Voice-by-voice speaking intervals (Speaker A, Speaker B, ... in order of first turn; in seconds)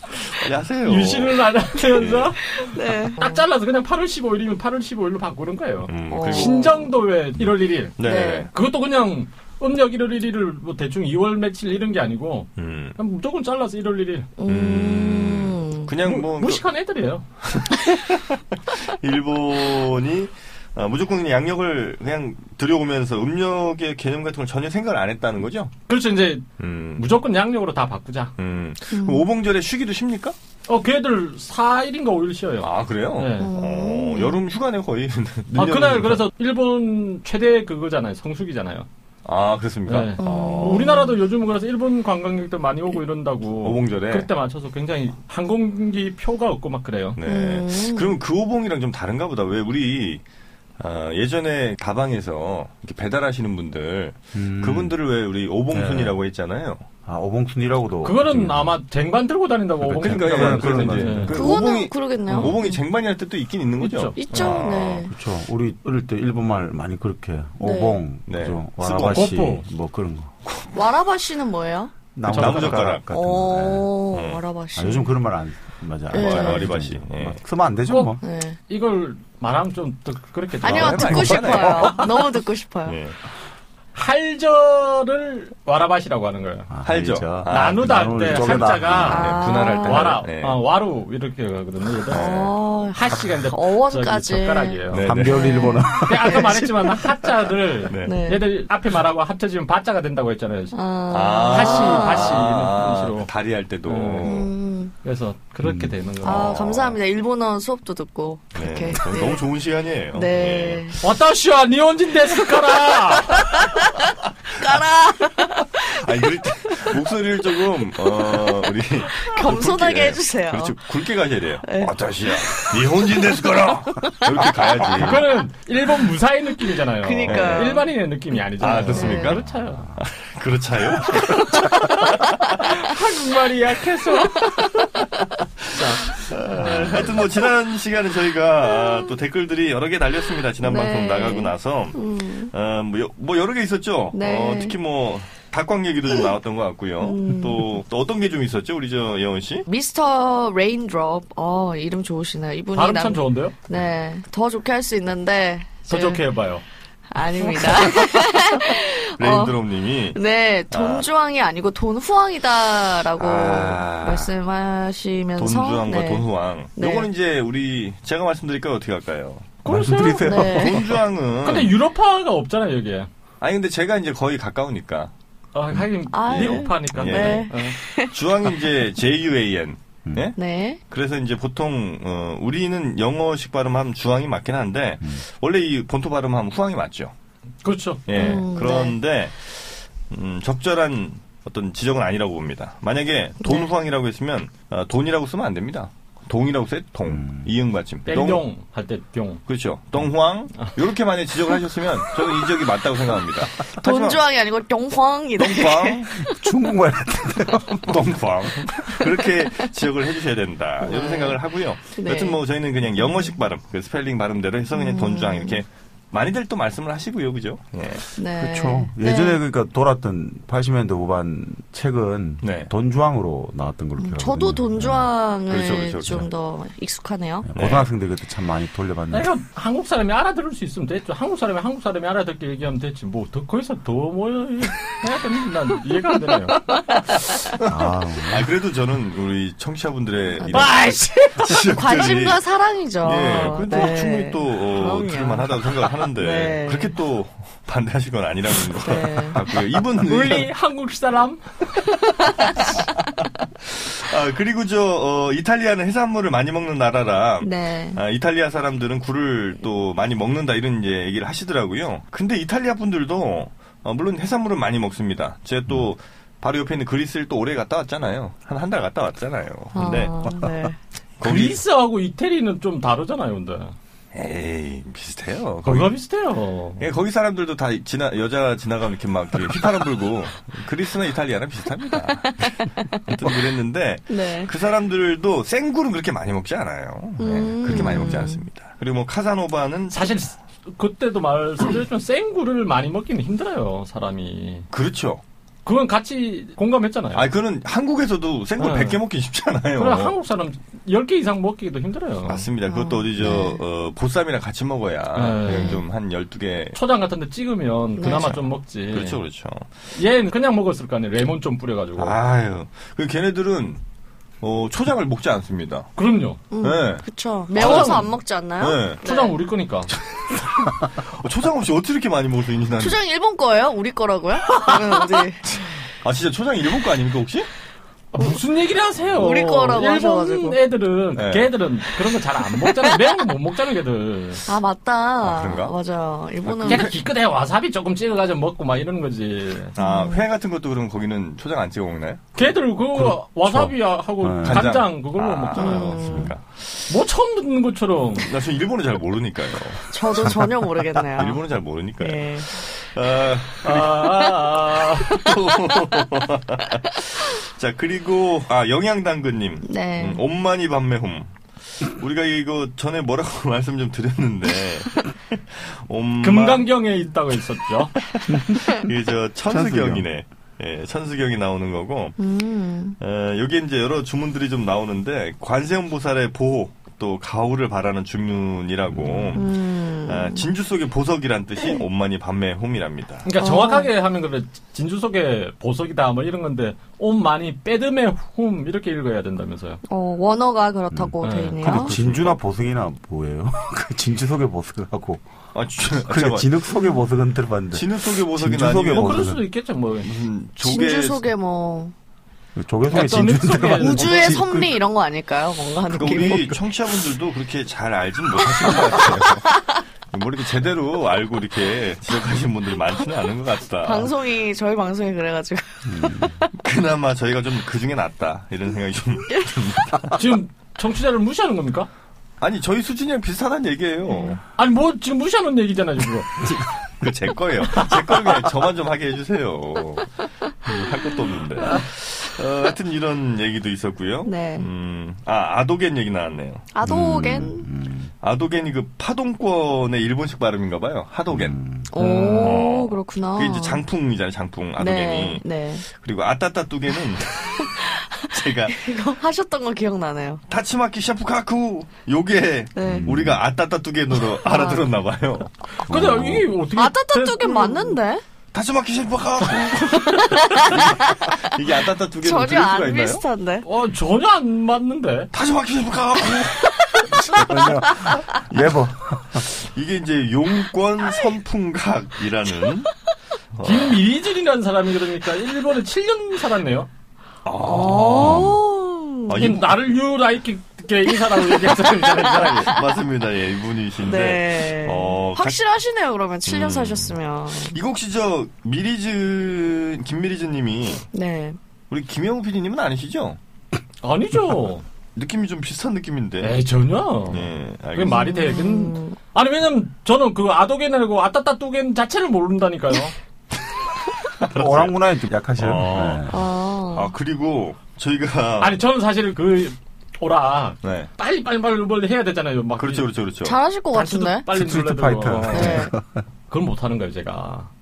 Speaker A: 0.3-2.3, 5.9-6.7, 8.0-8.5, 12.6-13.0, 14.4-16.6, 17.4-25.7, 26.6-27.1, 28.4-30.4, 32.6-36.2, 39.2-41.1, 43.6-44.3, 47.1-50.2, 50.8-56.8, 59.9-65.1, 68.2-69.2, 70.4-70.8, 72.3-73.0, 74.1-74.4, 76.1-77.4, 80.6-82.3, 82.8-83.1, 86.8-90.6, 92.1-92.5, 94.9-95.8, 97.8-98.2, 101.1-104.5, 106.2-107.0, 108.5-111.0, 115.8-125.2, 127.2-127.8, 128.6-132.2, 136.0-149.7, 157.6-160.2, 160.7-161.1, 163.2-164.3, 165.3-169.6, 170.4-171.7, 173.4-175.1, 176.3-177.5, 178.1-180.4, 180.9-187.1, 188.1-198.4, 199.5-204.2, 205.4-206.2, 207.8-218.1, 222.4-222.7, 225.5-226.3, 227.5-227.9, 237.6-242.4, 243.0-250.5, 253.7-270.5, 271.2-271.6, 274.1-275.9, 276.8-290.3, 294.7-295.2, 297.1-300.1, 302.3-306.8, 308.0-309.8, 312.0-313.8, 314.4-315.9, 316.6-319.0, 319.9-323.0, 325.5-327.5, 331.1-331.5, 335.2-335.7, 336.4-336.9, 339.8-342.2, 344.4-346.8, 348.2-350.5, 351.1-366.7, 368.0-372.2, 373.0-383.3, 391.7-392.4, 395.5-396.6, 397.7-399.4, 400.0-401.2, 405.8-414.1, 416.6-420.2, 422.4-424.4, 427.0-430.1, 430.7-436.8, 438.2-441.6, 442.2-448.9, 450.5-455.5, 458.5-463.2, 465.3-467.7, 469.3-472.9, 473.5-474.0, 477.4-478.6, 479.3-479.7, 482.6-485.6, 486.4-491.1, 491.9-493.4, 495.1-496.6, 497.3-498.3, 504.4-504.9, 505.6-508.8, 510.8-511.1, 512.8-513.6
Speaker B: 0.8-14.3, 16.0-17.2, 25.9-28.3, 30.7-33.5, 35.5-38.9, 39.9-47.2, 58.0-61.4, 62.3-62.6, 63.8-64.5, 69.0-69.6, 72.3-72.9, 77.9-82.3, 83.9-86.7, 87.4-95.1, 96.0-100.8, 101.4-103.3, 103.8-104.4, 105.0-106.6, 111.0-113.4, 124.9-129.8, 131.2-132.0, 132.6-134.6, 135.7-136.9, 152.7-153.5, 155.9-156.6, 169.6-170.7, 171.4-173.1, 175.5-177.8, 187.6-188.4, 198.1-199.4, 229.1-236.6, 240.5-241.6, 243.5-243.9, 250.0-251.8, 271.2-273.7, 275.6-276.9, 289.9-294.7, 295.6-297.3, 298.6-299.0, 299.8-302.5, 305.1-305.8, 306.7-309.2, 309.9-312.1, 315.9-316.4, 317.5-318.1, 319.0-319.9, 324.6-324.9, 328.1-334.4, 336.6-339.8, 342.4-346.0, 346.9-348.3, 353.6-355.2, 366.2-367.9, 383.2-389.8, 391.2-391.9, 398.9-400.1, 402.9-404.4, 420.1-421.9, 424.5-426.6, 441.9-442.6, 455.8-458.0, 463.6-465.3, 473.6-476.9, 479.4-482.8, 494.0-494.8, 496.4-503.1, 508.6-513.1, 513.9-515.9, 516.5-517.7
Speaker C: 2.6-3.4, 6.1-6.9, 8.0-8.5, 14.4-15.9, 28.9-29.2, 33.4-34.4, 40.2-41.1, 47.2-48.1, 61.3-62.8, 64.2-65.1, 67.6-68.0, 70.7-71.9, 73.1-75.1, 76.1-76.7, 78.2-78.6, 80.6-83.0, 89.0-90.2, 92.1-96.6, 98.0-98.5, 100.7-102.4, 104.2-104.9, 106.2-109.5, 110.1-111.0, 112.6-116.1, 118.0-120.8, 121.6-122.9, 123.9-125.2, 127.0-127.9, 128.9-129.4, 138.7-139.1, 140.6-142.5, 144.1-144.7, 147.0-147.7, 149.7-156.2, 157.1-159.6, 160.1-167.1, 170.2-170.9, 176.1-178.1, 180.3-180.8, 188.1-188.9, 203.7-206.5, 209.0-209.7, 210.8-211.4, 211.9-212.4, 214.7-215.6, 218.2-219.4, 224.0-227.5, 236.7-237.0, 240.4-240.8, 241.5-247.0, 248.8-249.6, 257.4-258.0, 269.7-270.8, 282.0-282.9, 284.1-284.5, 287.2-288.4, 302.6-303.6, 305.4-305.8, 308.0-308.4, 316.5-319.3, 322.8-325.6, 329.1-330.6, 334.4-336.9, 339.8-340.2, 345.5-346.3, 349.9-351.4, 352.0-352.5, 359.6-360.2, 372.2-373.0, 379.3-380.4, 383.4-383.9, 389.8-392.0, 400.6-401.9, 403.5-406.6, 413.8-416.3, 424.1-424.4, 434.2-434.7, 436.7-437.7, 441.9-443.8, 444.8-445.9, 447.6-448.0, 448.7-450.4, 452.7-453.1, 454.4-454.8, 456.7-458.2, 460.1-461.4, 462.2-463.6, 477.6-479.4, 481.5-482.5, 484.0-487.8, 491.1-491.6, 498.1-499.2, 506.3-507.1, 513.4-514.5, 515.5-515.9
Speaker D: 54.3-54.9, 55.7-56.1, 57.0-58.8, 59.8-61.6, 65.0-70.3, 72.1-73.9, 74.8-78.2, 80.8-81.8, 86.7-89.4, 95.0-96.7, 105.6-105.9, 128.7-130.0, 136.6-137.2, 169.6-170.8, 197.1-197.5, 206.2-208.1, 218.3-225.1, 227.4-229.3, 237.6-238.5, 342.9-344.7, 346.1-346.3, 368.3-368.8, 369.5-370.0, 378.9-379.5, 390.9-395.2, 395.8-399.4, 402.6-404.8, 415.9-416.4, 436.8-438.1, 441.3-441.9, 452.8-453.4, 455.9-456.5, 467.3-469.5, 478.1-478.6, 504.4-506.4, 514.5-516.2